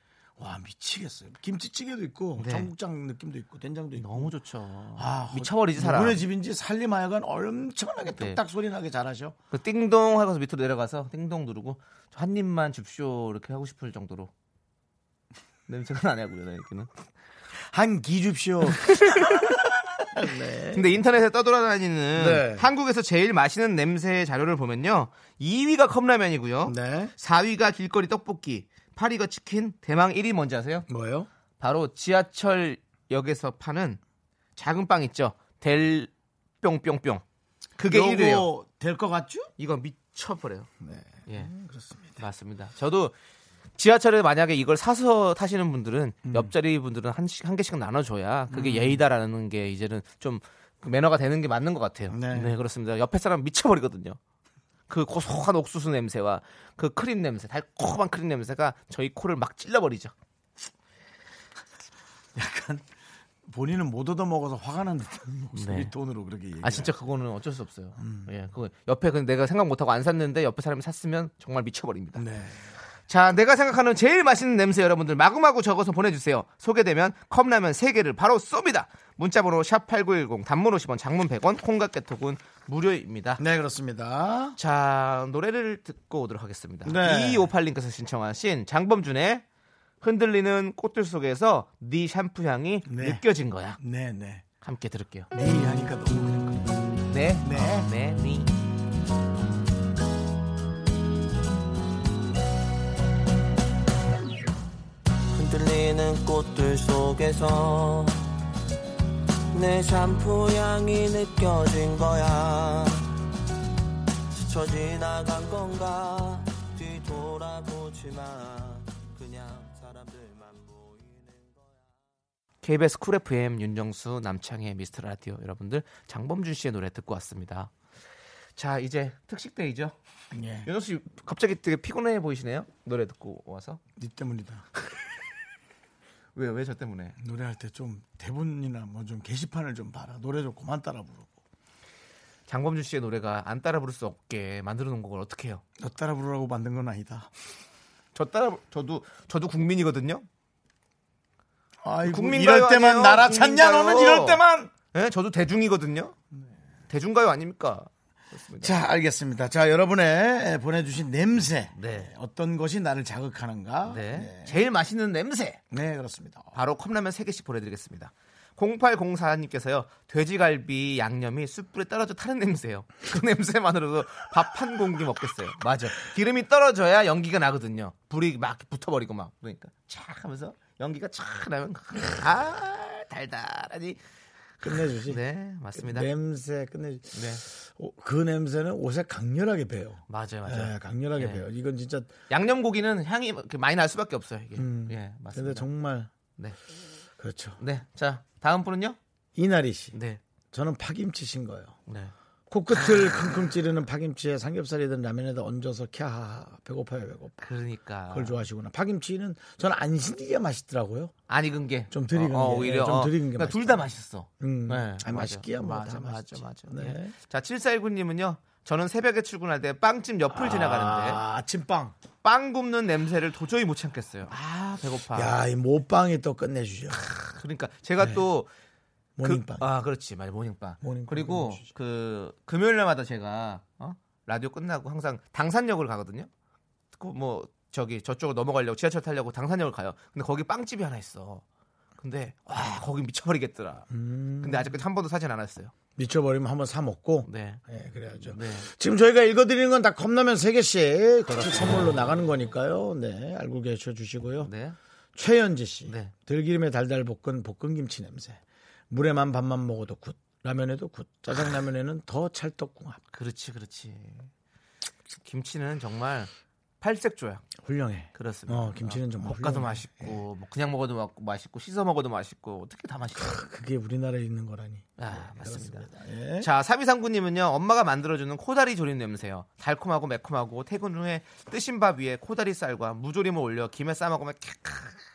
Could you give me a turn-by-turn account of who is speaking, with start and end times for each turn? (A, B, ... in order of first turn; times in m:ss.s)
0:00.4-0:04.3 A
0:02.4-0:02.7 B
0:04.0-0:06.2 B
0:05.0-0:09.4 A
0:09.5-0:14.3 B
0:15.7-0:16.9 B
0:17.7-0:21.0 A
0:18.8-0:19.5 B
0:20.7-0:30.9 B
0:22.2-0:22.7 A
0:26.6-0:27.1 A
0:30.9-0:31.3 A
0:31.6-0:34.0 B
0:34.6-0:36.1 B
0:36.6-0:37.2 B
0:37.8-0:38.5 B
0:37.9-0:39.5 A
0:39.6-0:40.7 B
0:40.8-0:42.2 A
0:42.2-0:43.1 B
0:43.8-0:54.2 B
0:46.2-0:46.5 A
0:48.5-0:49.0 A
0:52.1-0:52.6 A
0:54.9-1:00.1 B
1:02.4-1:02.9 A
1:03.4-1:06.9 A
1:05.6-1:05.9 B
1:06.6-1:12.2 B
1:08.0-1:08.3 A
1:12.2-1:12.7 A
1:13.1-1:23.4 B
1:23.4-1:24.6 A
1:24.6-1:29.4 B
1:26.8-1:27.5 A
1:30.0-1:33.8 B
1:32.9-1:33.2 A
1:33.8-1:34.4 A
1:34.6-1:35.3 B
1:35.3-1:37.9 A
1:37.1-1:38.5 B
1:45.3-1:48.2 C
1:49.5-1:53.1 C
1:54.4-2:01.6 C
2:02.6-2:07.7 B
2:08.6-2:10.0 B
2:10.3-2:10.7 A
2:10.6-2:13.8 B
2:14.0-2:14.7 A
2:16.4-2:17.2 B
2:17.2-2:21.4 A
2:22.5-2:25.6 B
2:25.8-2:27.3 A
2:28.2-2:30.3 B
2:31.8-2:34.7 A
2:32.0-2:36.2 B
2:36.9-2:38.8 B
2:38.6-2:44.6 A
2:41.8-2:42.1 B
2:43.9-2:45.6 B
2:45.7-2:46.5 A
2:46.5-3:04.0 B
3:04.6-3:06.1 B
3:04.6-3:05.2 A
3:05.7-3:12.1 A
3:07.1-3:07.4 B
3:10.1-3:11.4 B
3:12.3-3:15.7 B
3:14.6-3:16.1 A
3:17.2-3:17.6 A
3:17.6-3:19.0 B
3:19.4-3:20.0 A
3:19.9-3:20.2 B
3:20.5-3:21.8 A
3:21.9-3:22.1 B
3:22.5-3:27.4 A
3:27.4-3:28.4 B
3:28.1-3:31.1 A
3:31.3-3:41.2 B
3:31.9-3:33.9 A
3:34.4-3:37.2 A
3:40.3-3:42.0 A
3:42.2-3:45.4 B
3:45.1-3:47.0 A
3:47.0-3:48.5 B
3:48.0-3:48.2 A
3:49.2-3:49.7 A
3:49.2-3:56.3 B
3:50.8-3:51.7 A
3:57.0-4:01.4 B
4:02.0-4:03.9 B
4:03.9-4:04.8 A
4:04.4-4:05.7 B
4:06.0-4:14.5 A
4:07.2-4:07.6 B
4:08.3-4:08.7 B
4:14.4-4:14.8 B
4:15.2-4:23.0 A
4:15.8-4:16.1 B
4:23.1-4:24.3 B
4:25.2-4:27.5 B
4:27.6-4:30.2 A
4:28.2-4:33.4 B
4:33.2-4:36.5 A
4:35.0-4:35.9 B
4:36.4-4:45.0 B